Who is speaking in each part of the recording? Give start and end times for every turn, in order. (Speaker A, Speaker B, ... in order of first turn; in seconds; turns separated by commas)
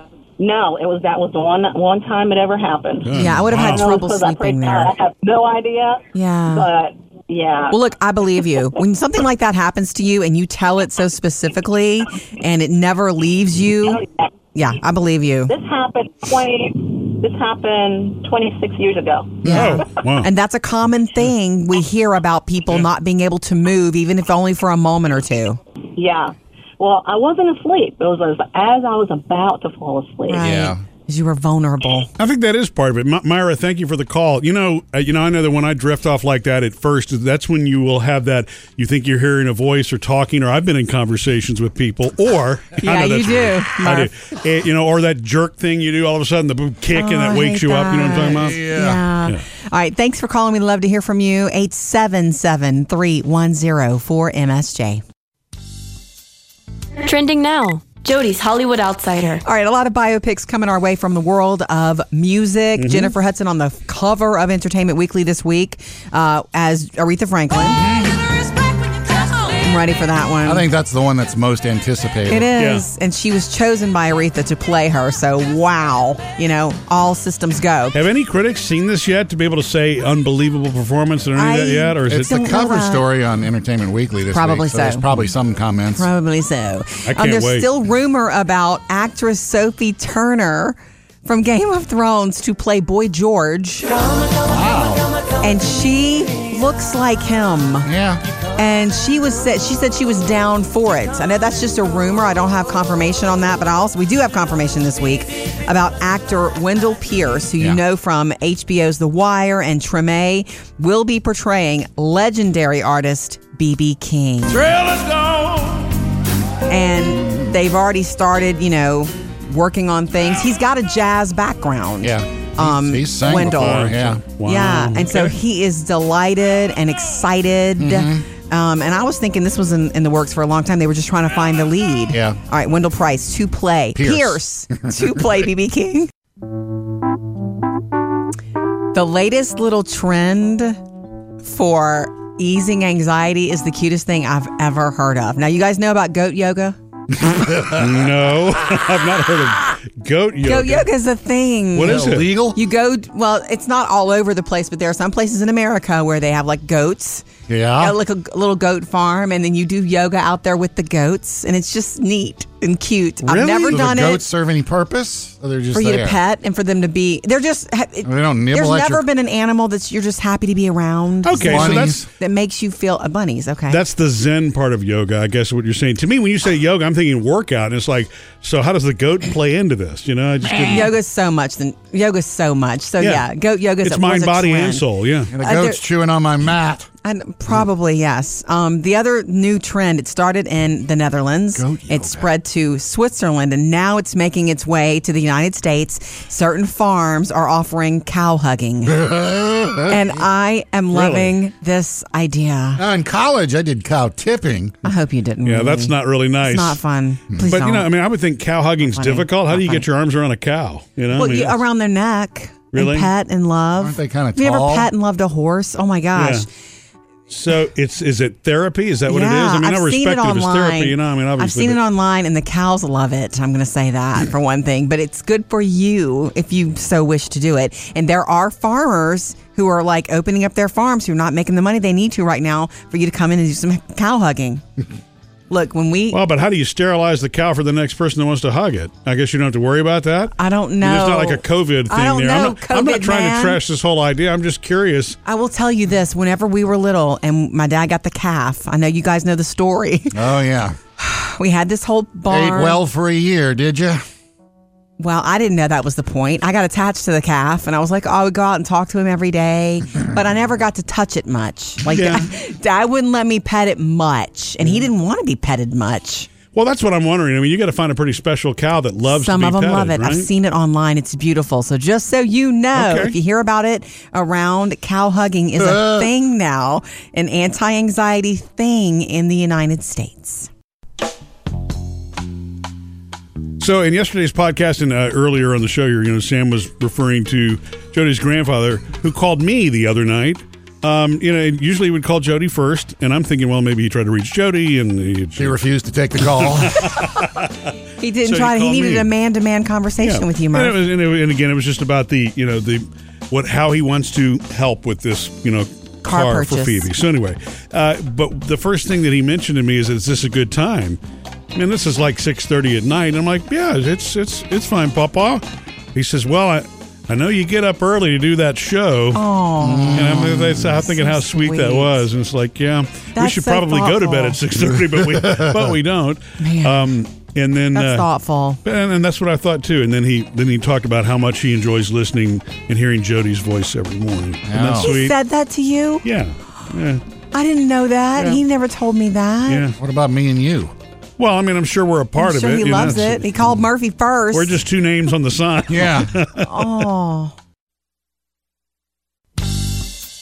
Speaker A: 0.4-7.8, Speaker B: 3.1-3.8, Speaker C: 3.1-4.9, Speaker C: 6.1-6.7, Speaker C: 7.7-14.0, Speaker A: 13.8-14.3, Speaker C: 14.5-15.5, Speaker A: 15.5-19.4, Speaker D: 19.4-19.8, Speaker B: 19.5-20.3, Speaker C: 19.5-25.6, Speaker A: 25.9-30.4, Speaker C: 30.3-32.1, Speaker D: 30.4-30.8, Speaker B: 32.2-48.6, Speaker C: 42.8-44.1, Speaker C: 46.9-55.0, Speaker D: 48.4-49.0, Speaker E: 57.0-59.4, Speaker C: 59.4-67.9, Speaker B: 62.8-63.1, Speaker D: 67.8-68.2, Speaker C: 69.6-70.7, Speaker D: 70.4-72.5, Speaker C: 72.3-78.0, Speaker B: 72.6-72.8, Speaker B: 77.9-82.3, Speaker C: 81.3-83.0, Speaker D: 82.1-86.1, Speaker C: 84.3-85.0, Speaker C: 86.0-94.1, Speaker B: 87.1-87.7, Speaker D: 94.4-95.0, Speaker C: 95.4-97.9, Speaker D: 97.8-98.2, Speaker C: 98.5-114.7, Speaker B: 114.7-115.0, Speaker C: 116.7-136.1, Speaker D: 122.0-124.2, Speaker B: 123.4-125.3, Speaker D: 127.8-128.2, Speaker D: 132.1-132.4, Speaker D: 133.9-135.1, Speaker C: 138.9-140.8, Speaker C: 141.4-146.8, Speaker D: 147.2-148.0, Speaker B: 147.7-150.9, Speaker C: 150.4-157.2, Speaker B: 151.7-152.3, Speaker D: 151.8-152.6, Speaker D: 157.5-157.9, Speaker C: 157.8-164.2, Speaker B: 163.2-163.8, Speaker D: 163.7-166.2, Speaker C: 165.7-173.8, Speaker D: 168.0-169.0, Speaker B: 171.2-172.0, Speaker D: 171.3-172.1, Speaker B: 173.7-180.9, Speaker C: 180.7-184.8, Speaker B: 183.0-183.2, Speaker B: 183.8-185.3, Speaker D: 185.3-186.9, Speaker C: 185.4-185.8, Speaker C: 187.0-199.0, Speaker D: 191.6-192.3, Speaker D: 198.9-200.0, Speaker C: 199.9-202.8, Speaker B: 200.9-201.4, Speaker D: 202.8-204.8, Speaker C: 204.8-207.9, Speaker B: 205.4-206.8, Speaker B: 207.4-211.6, Speaker C: 208.8-209.8, Speaker C: 211.1-216.5, Speaker B: 212.7-213.1, Speaker D: 213.8-214.9, Speaker B: 216.1-216.4, Speaker B: 217.3-221.8, Speaker C: 219.1-234.6, Speaker C: 235.5-236.2, Speaker B: 236.1-245.2, Speaker C: 240.4-243.6, Speaker C: 245.2-250.2, Speaker D: 250.1-250.8, Speaker C: 251.0-252.8, Speaker D: 252.3-254.0, Speaker C: 255.0-266.3, Speaker B: 261.9-262.2, Speaker B: 266.5-270.3, Speaker C: 269.1-280.5, Speaker B: 272.7-273.1, Speaker D: 275.6-276.1, Speaker B: 283.6-295.5, Speaker D: 295.4-297.0, Speaker B: 296.6-297.5, Speaker C: 298.0-300.8, Speaker B: 298.2-299.1, Speaker B: 300.0-311.0, Speaker C: 306.0-306.9, Speaker B: 311.5-315.4, Speaker B: 315.9-319.2, Speaker C: 319.1-322.0, Speaker D: 319.6-320.5, Speaker B: 319.9-328.1, Speaker C: 323.1-324.4, Speaker D: 324.9-325.7, Speaker C: 326.4-326.9, Speaker C: 327.7-328.6, Speaker B: 328.6-335.1, Speaker D: 334.5-334.9, Speaker C: 334.8-336.0, Speaker B: 336.0-337.0, Speaker C: 337.3-339.6, Speaker B: 339.5-339.8, Speaker D: 339.8-340.7, Speaker B: 341.2-343.2, Speaker C: 342.1-344.6, Speaker B: 344.3-346.9, Speaker D: 345.7-346.3, Speaker C: 346.4-347.3